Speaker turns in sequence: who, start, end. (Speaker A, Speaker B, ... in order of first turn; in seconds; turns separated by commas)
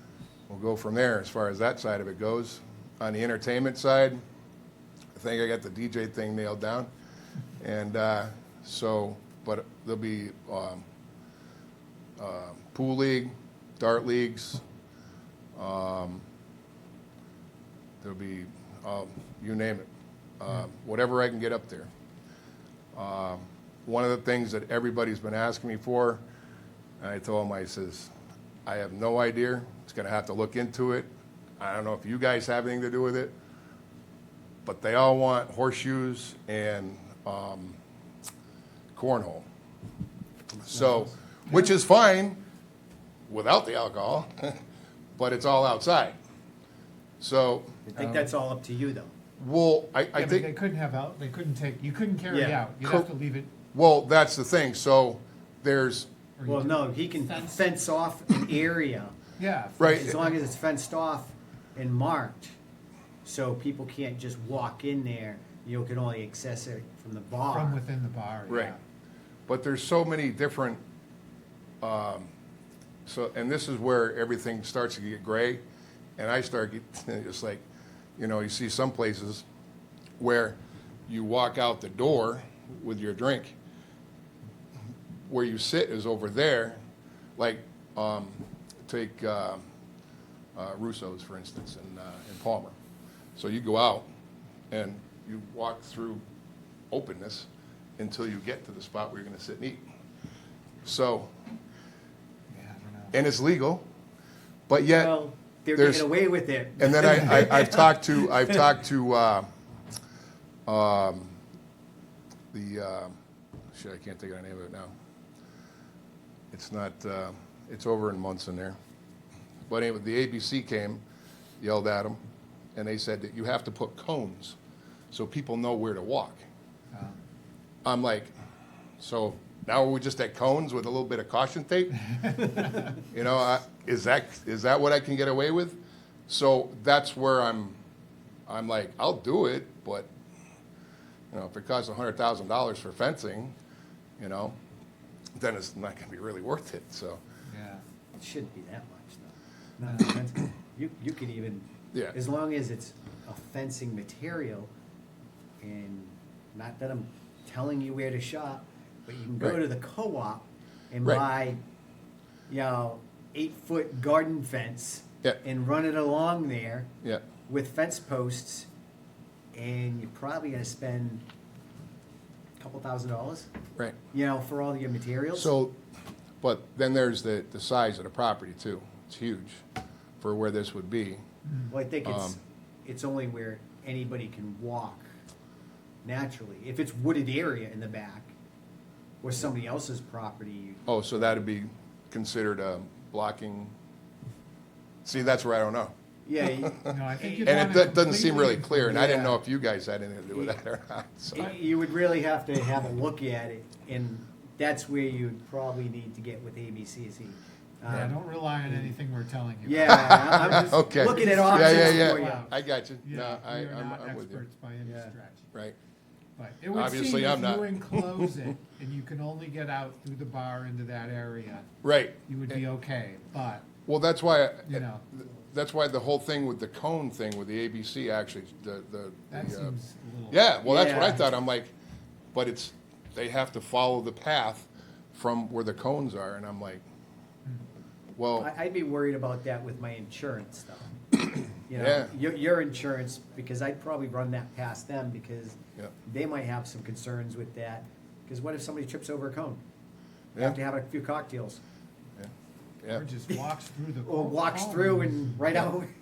Speaker A: 0.5-4.2, Speaker A: 5.2-6.9, Speaker A: 7.6-10.8, Speaker A: 12.2-14.6, Speaker A: 15.5-16.2, Speaker A: 18.0-19.9, Speaker A: 20.4-21.9, Speaker A: 22.9-26.2, Speaker A: 27.0-28.1, Speaker A: 28.6-31.1, Speaker A: 31.6-33.3, Speaker A: 34.6-37.8, Speaker A: 38.9-39.5, Speaker B: 40.5-41.0, Speaker A: 40.6-42.4, Speaker A: 43.3-44.6, Speaker A: 45.2-46.1, Speaker A: 47.2-47.8, Speaker B: 47.9-49.1, Speaker C: 48.0-48.2, Speaker A: 49.4-50.5, Speaker C: 50.1-53.5, Speaker B: 52.3-52.6, Speaker A: 52.8-53.1, Speaker A: 53.7-56.1, Speaker C: 56.4-57.6, Speaker B: 56.5-59.1, Speaker C: 59.4-60.2, Speaker A: 59.8-60.1, Speaker B: 59.9-62.5, Speaker B: 63.2-67.8, Speaker C: 67.5-68.8, Speaker A: 68.5-68.7, Speaker A: 69.5-70.8, Speaker A: 71.8-72.3, Speaker A: 73.0-75.6, Speaker A: 76.2-77.6, Speaker A: 78.2-79.4, Speaker A: 80.2-80.5, Speaker A: 81.1-83.5, Speaker A: 85.2-86.8, Speaker A: 87.4-89.6, Speaker A: 90.5-92.7, Speaker A: 93.3-94.0, Speaker A: 94.7-96.2, Speaker A: 96.9-99.8, Speaker A: 100.8-101.3, Speaker C: 102.5-103.1, Speaker A: 103.1-103.8, Speaker A: 104.7-105.2, Speaker B: 104.7-108.6, Speaker A: 105.8-106.1, Speaker A: 106.8-109.5, Speaker A: 110.7-111.4, Speaker A: 112.5-113.2, Speaker A: 113.7-114.9, Speaker A: 116.5-118.8, Speaker A: 119.7-121.0, Speaker A: 121.6-122.2, Speaker A: 122.8-124.5, Speaker A: 125.1-126.4, Speaker A: 127.8-128.3, Speaker A: 129.0-137.8, Speaker A: 138.5-140.1, Speaker A: 141.3-143.5, Speaker A: 144.2-144.6, Speaker A: 145.3-147.2, Speaker C: 147.5-147.8, Speaker B: 148.2-154.7, Speaker B: 155.6-161.6, Speaker B: 162.5-166.9, Speaker B: 167.5-168.7, Speaker B: 169.5-171.2, Speaker B: 172.6-173.5, Speaker B: 174.1-175.5, Speaker A: 175.3-175.8, Speaker A: 176.4-179.6, Speaker A: 180.2-181.2, Speaker B: 181.7-185.1, Speaker A: 182.0-182.4, Speaker B: 186.0-188.3, Speaker B: 189.2-190.9, Speaker A: 190.9-193.7, Speaker A: 195.0-195.9, Speaker B: 196.2-197.5, Speaker A: 196.6-201.5, Speaker C: 196.9-199.1, Speaker B: 198.9-199.4, Speaker B: 201.3-208.9, Speaker C: 207.9-215.4, Speaker B: 209.6-212.5, Speaker A: 209.9-214.4, Speaker B: 214.8-215.1, Speaker C: 216.4-221.7, Speaker A: 216.7-218.3, Speaker A: 221.8-222.6, Speaker C: 222.3-223.7, Speaker A: 223.8-229.7, Speaker C: 224.6-225.0, Speaker C: 229.3-230.4, Speaker A: 230.3-231.7, Speaker B: 230.6-231.2, Speaker A: 232.3-236.8, Speaker A: 238.2-238.5, Speaker B: 238.4-240.9, Speaker B: 241.6-249.6, Speaker A: 241.7-242.1, Speaker B: 250.3-251.6, Speaker C: 252.9-255.4, Speaker B: 254.0-255.9